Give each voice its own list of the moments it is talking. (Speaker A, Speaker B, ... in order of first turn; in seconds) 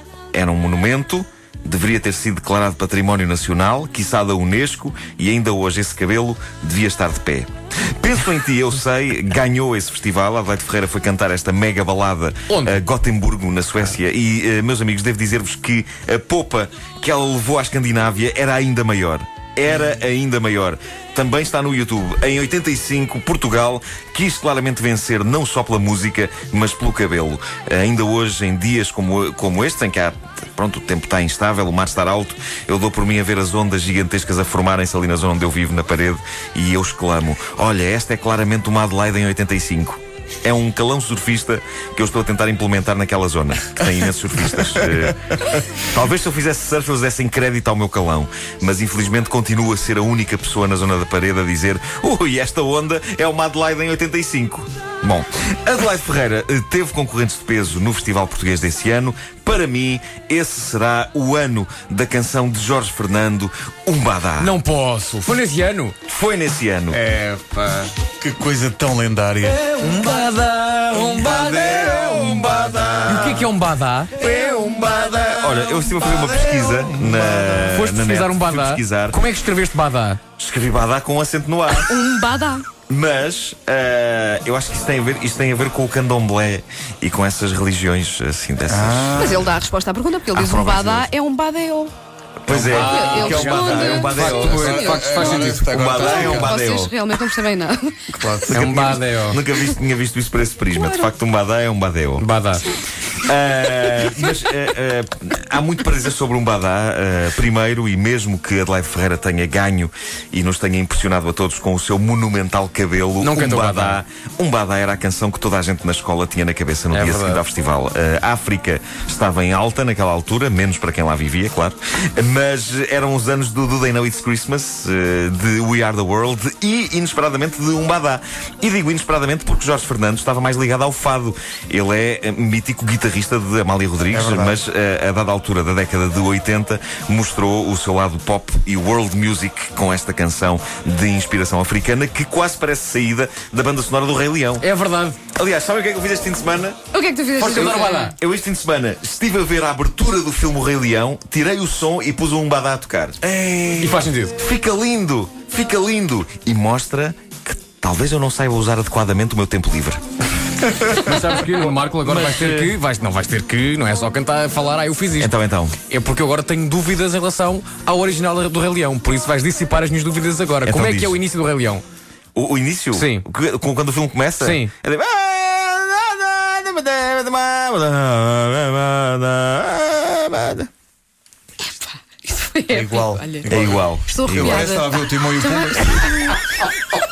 Speaker A: 0.3-64.5, 66.1-67.0, 71.0-73.5, 74.2-79.2, 80.4-81.9, 82.9-89.5, 90.3-91.1, 92.4-96.9, 98.5-102.3, 103.1-144.7, 145.3-146.8, 147.5-153.2, 154.4-160.0, 161.1-162.7, 165.2-165.8, 170.6-171.2, 172.3-180.7, 183.5-184.7
Speaker B: 12.5-12.8, 64.4-66.0, 69.8-72.5, 73.1-74.1, 77.7-80.2, 92.5-96.0, 98.5-99.4, 102.2-102.7, 113.2-114.0, 116.9-117.4, 144.6-145.2, 147.4-148.2, 153.8-154.3, 161.0-165.3, 165.9-171.8, 172.9-173.2, 174.4-174.7
Speaker C: 66.9-69.6, 76.7-77.4, 88.7-89.5, 94.5-96.5, 98.1-98.6, 134.1-134.6, 153.2-154.1, 182.7-186.2
Speaker D: 81.9-82.7, 89.2-91.9, 92.7-98.5, 100.8-101.0, 146.9-148.1, 181.6-186.4